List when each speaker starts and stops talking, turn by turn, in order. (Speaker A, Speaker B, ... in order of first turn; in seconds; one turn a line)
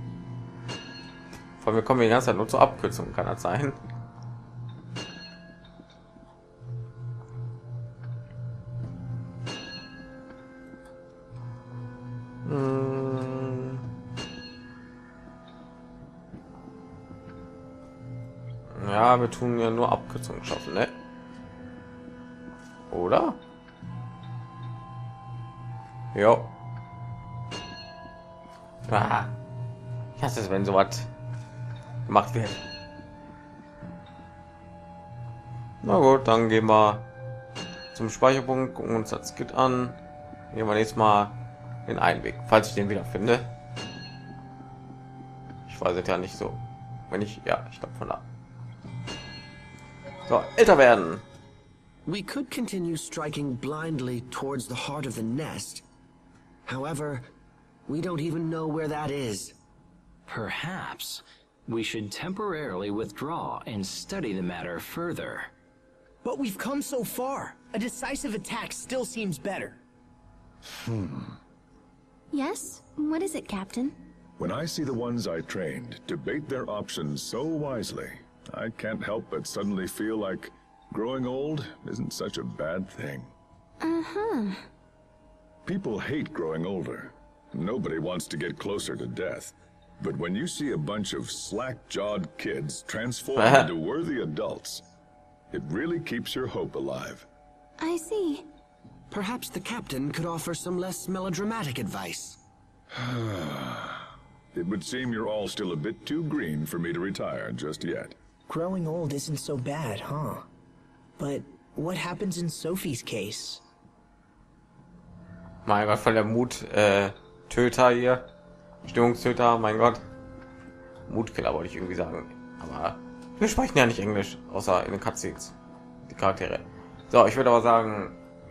Speaker A: 1.6-3.8
Speaker A: 12.4-13.8
Speaker A: 18.7-20.9
Speaker A: 22.9-23.4
Speaker A: 26.1-26.5
Speaker A: 28.9-29.3
Speaker A: 30.2-31.1
Speaker A: 32.1-32.6
Speaker A: 35.8-37.0
Speaker A: 37.9-40.0
Speaker A: 40.5-41.3
Speaker A: 41.9-43.5
Speaker A: 45.7-48.2
Speaker A: 50.3-51.2
Speaker B: 52.0-55.8
Speaker B: 56.6-57.2
Speaker B: 57.9-59.5
Speaker C: 60.3-65.5
Speaker D: 66.2-69.8
Speaker E: 70.9-71.3
Speaker F: 72.3-73.9
Speaker E: 74.4-83.3
Speaker F: 83.8-84.6
Speaker E: 85.6-94.8
Speaker A: 93.3-93.7
Speaker E: 95.5-97.2
Speaker F: 97.8-98.5
Speaker B: 99.1-102.4
Speaker E: 103.0-104.0
Speaker E: 104.5-108.2
Speaker D: 108.5-110.4
Speaker D: 111.2-113.6
Speaker A: 115.7-118.2
Speaker A: 118.8-120.0
Speaker A: 121.1-125.5
Speaker A: 126.1-128.2